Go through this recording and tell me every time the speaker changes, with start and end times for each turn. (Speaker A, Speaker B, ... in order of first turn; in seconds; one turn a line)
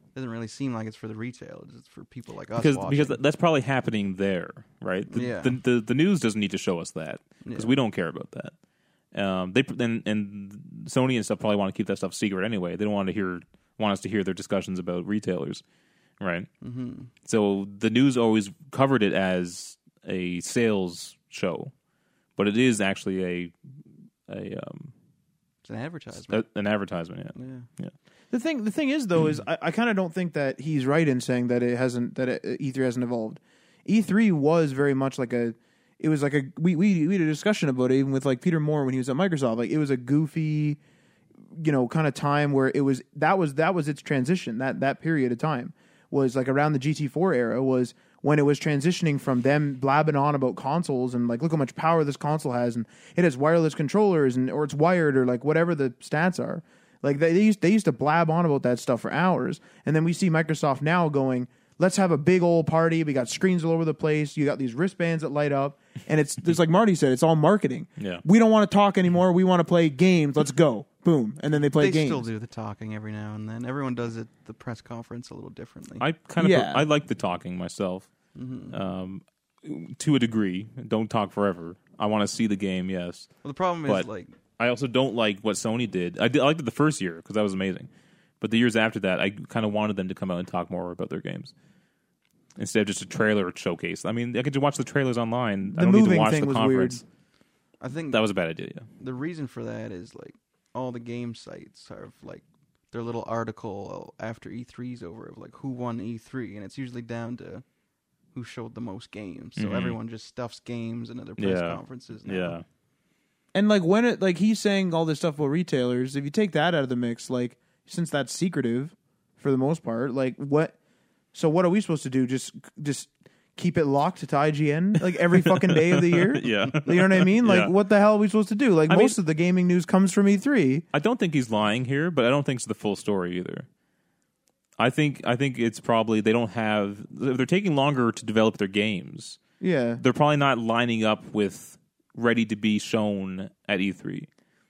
Speaker A: 0.1-3.2
Speaker B: 2.5-8.5
Speaker A: 5.1-5.6
Speaker A: 7.4-7.7
Speaker B: 9.1-15.6
Speaker B: 16.2-16.5
Speaker A: 16.6-17.1
Speaker B: 17.2-21.7
Speaker B: 22.4-23.5
Speaker B: 24.3-24.9
Speaker A: 25.6-26.4
Speaker B: 26.3-27.9
Speaker A: 27.3-27.7
Speaker C: 28.3-40.8
Speaker C: 41.5-72.2
Speaker B: 68.0-68.2
Speaker A: 71.7-76.0
Speaker B: 76.0-78.1
Speaker C: 76.4-76.8
Speaker A: 78.3-78.8
Speaker B: 78.7-83.3
Speaker A: 83.4-84.4
Speaker B: 84.6-87.9
Speaker B: 88.4-91.5
Speaker B: 92.5-97.0
Speaker C: 95.7-97.0
Speaker A: 97.8-98.2
Speaker B: 98.1-98.9
Speaker A: 99.0-107.6
Speaker A: 108.3-112.6
Speaker B: 109.6-110.0
Speaker B: 111.4-112.6
Speaker C: 113.5-120.7
Speaker C: 121.3-130.8
Speaker B: 125.2-127.7
Speaker B: 128.9-129.2
Speaker B: 130.9-133.7
Speaker B: 134.8-139.4
Speaker C: 139.6-140.0
Speaker B: 140.0-144.3